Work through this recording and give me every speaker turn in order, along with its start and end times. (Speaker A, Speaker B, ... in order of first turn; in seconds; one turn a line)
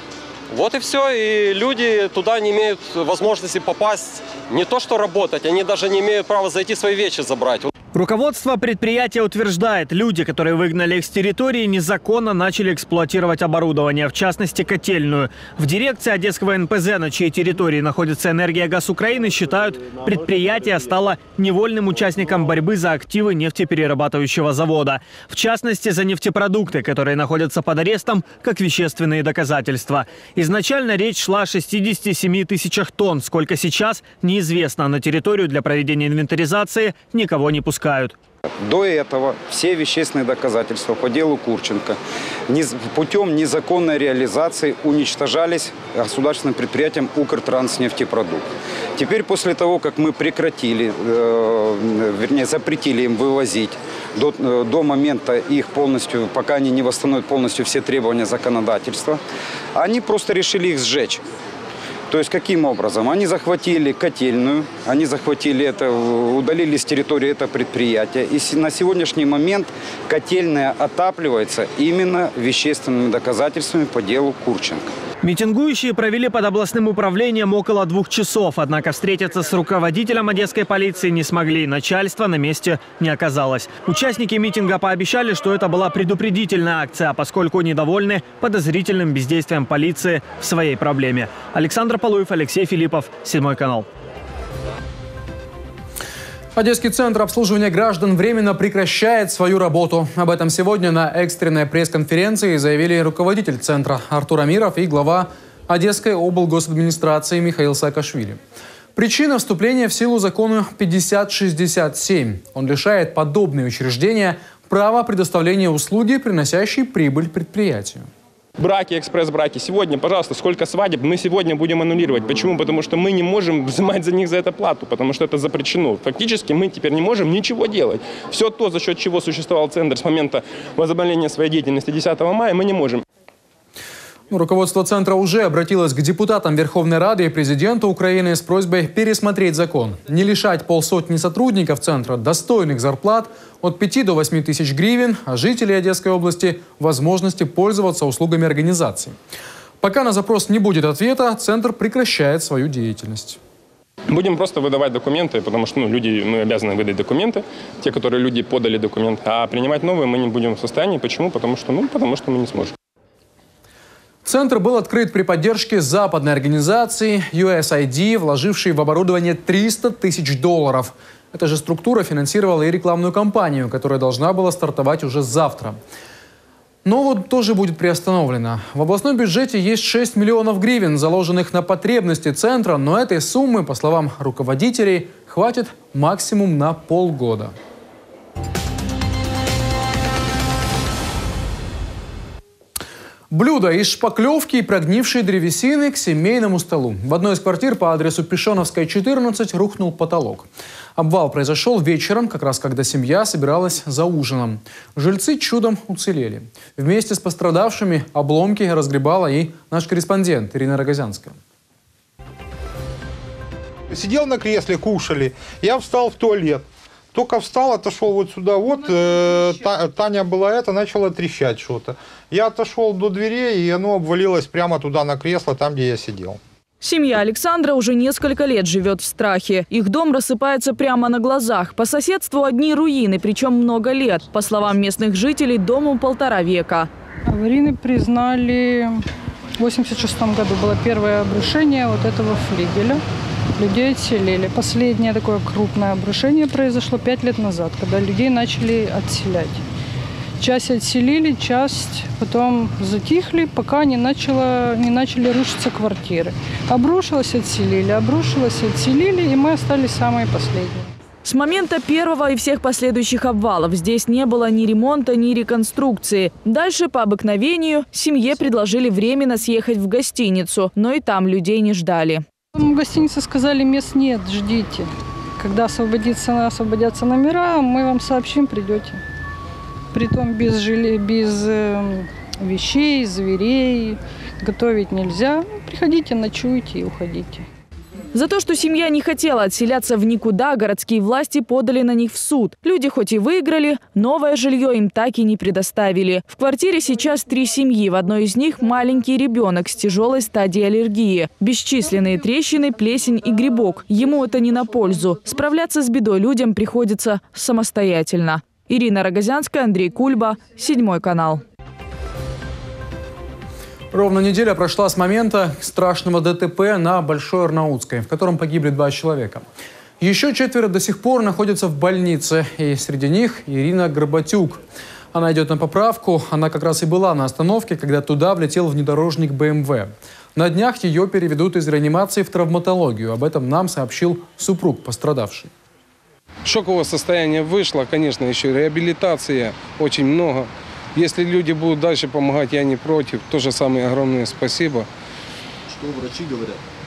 Speaker A: 0.5-7.7
Speaker B: 7.9-38.1
Speaker C: 38.6-59.2
Speaker C: 59.7-61.2
Speaker C: 62.1-74.9
Speaker B: 75.2-93.9
Speaker D: 96.5-108.4
Speaker D: 109.0-118.1
Speaker E: 118.6-133.0
Speaker D: 134.3-149.2
Speaker D: 149.8-153.4
Speaker E: 154.1-162.7
Speaker D: 164.2-175.8
Speaker D: 176.8-187.5
Speaker D: 193.3-211.4
Speaker F: 213.9-226.4
Speaker G: 226.8-236.9
Speaker H: 237.3-239.0
Speaker H: 239.6-243.0
Speaker H: 243.6-249.6
Speaker H: 250.4-260.9
Speaker G: 261.2-272.2
Speaker H: 272.5-279.0
Speaker H: 279.9-287.4
Speaker G: 288.1-311.4
Speaker D: 313.9-319.4
Speaker D: 320.0-324.6
Speaker D: 325.1-335.5
Speaker I: 336.4-344.9